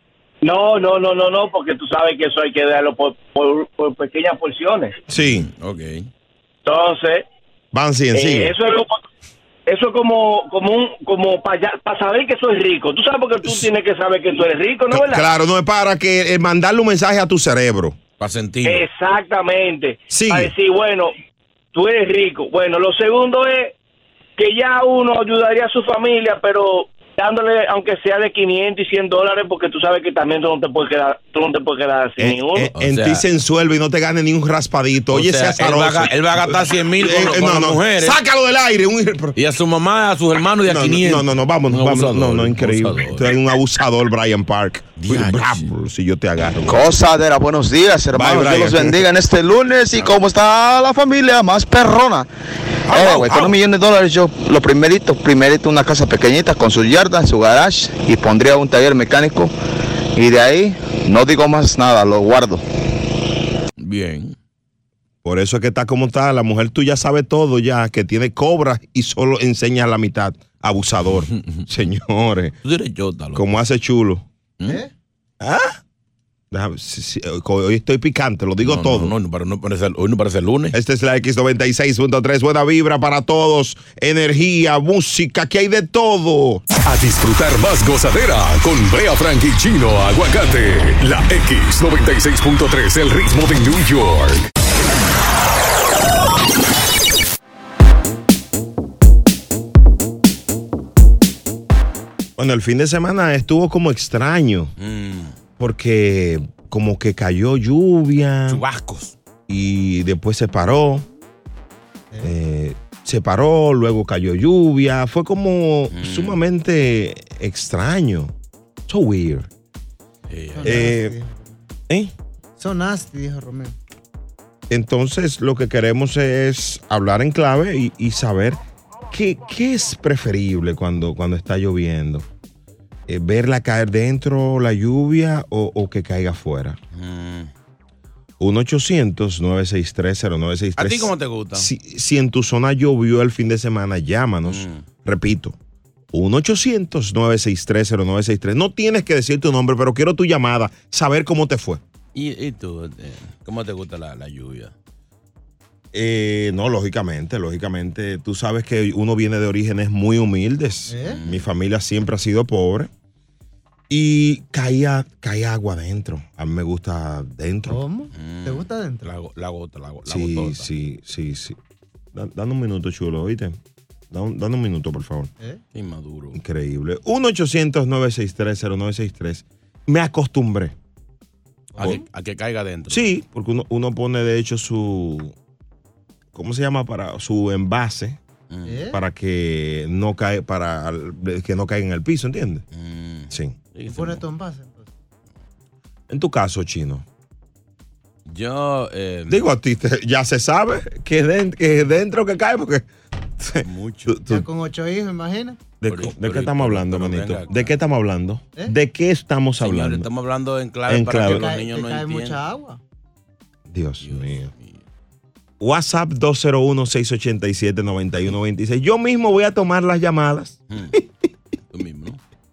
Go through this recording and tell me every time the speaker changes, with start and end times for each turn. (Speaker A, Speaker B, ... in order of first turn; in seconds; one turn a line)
Speaker A: 0.4-5.0
Speaker B: 5.1-5.5
Speaker C: 5.1-6.1
Speaker A: 6.6-7.2
Speaker B: 7.7-8.5
Speaker A: 8.1-9.0
Speaker A: 9.7-15.3
Speaker B: 14.9-18.0
Speaker C: 18.2-18.8
Speaker A: 18.6-21.1
Speaker B: 20.1-20.5
Speaker A: 21.7-23.7
Speaker A: 24.4-32.7
Speaker B: 32.2-39.4
Speaker C: 32.7-33.2
Speaker C: 35.1-38.2
Speaker C: 39.4-43.4
Speaker B: 40.6-46.9
Speaker C: 45.0-45.7
Speaker D: 46.6-52.3
Speaker B: 48.1-49.0
Speaker B: 52.9-53.5
Speaker D: 52.9-59.5
Speaker D: 60.1-62.6
Speaker C: 63.8-64.3
Speaker B: 65.2-72.5
Speaker C: 71.1-71.7
Speaker C: 72.6-73.5
Speaker B: 73.3-74.2
Speaker E: 74.6-74.9
Speaker B: 75.4-75.8
Speaker B: 76.5-79.1
Speaker C: 78.6-80.7
Speaker B: 80.7-86.6
Speaker F: 86.8-94.5
Speaker B: 102.4-104.7
Speaker C: 104.8-105.4
Speaker B: 105.6-108.6
Speaker C: 108.5-109.1
Speaker B: 109.5-111.0
Speaker B: 112.2-118.3
Speaker C: 115.9-116.4
Speaker B: 118.9-119.5
Speaker C: 120.3-120.9
Speaker E: 120.5-121.7
Speaker B: 120.6-121.1
Speaker E: 122.6-123.7
Speaker B: 124.7-128.6
Speaker B: 129.1-132.3
Speaker B: 133.1-136.8
Speaker C: 136.9-137.5
Speaker B: 138.4-145.6
Speaker C: 140.8-141.7
Speaker C: 144.4-144.8
Speaker B: 146.1-151.8
Speaker C: 152.1-154.7
Speaker B: 155.9-162.9
Speaker E: 160.9-161.2
Speaker C: 161.0-161.5
Speaker B: 163.9-167.8
Speaker E: 167.7-169.1
Speaker C: 168.1-170.7
Speaker B: 170.1-171.6
Speaker B: 172.1-173.6
Speaker B: 174.1-175.3
Speaker C: 175.7-176.4
Speaker B: 176.3-180.7
Speaker E: 181.7-182.0
Speaker C: 181.8-183.1
Speaker B: 182.9-185.3
Speaker B: 186.3-188.2
Speaker C: 188.5-188.8
Speaker E: 188.6-189.0
Speaker B: 188.9-192.6
Speaker C: 192.7-194.2
Speaker B: 193.3-193.5
Speaker E: 193.9-194.9
Speaker B: 196.1-197.0
Speaker C: 198.2-199.4
Speaker B: 199.3-202.8
Speaker B: 203.4-204.4
Speaker C: 203.6-204.2
Speaker E: 204.3-205.6
Speaker B: 205.8-210.1
Speaker C: 205.9-207.8
Speaker C: 209.6-212.4
Speaker B: 210.9-211.5
Speaker E: 211.2-212.8
Speaker B: 213.7-214.5
Speaker C: 214.0-214.8
Speaker B: 215.6-221.0
Speaker C: 220.7-221.0
Speaker C: 221.7-222.2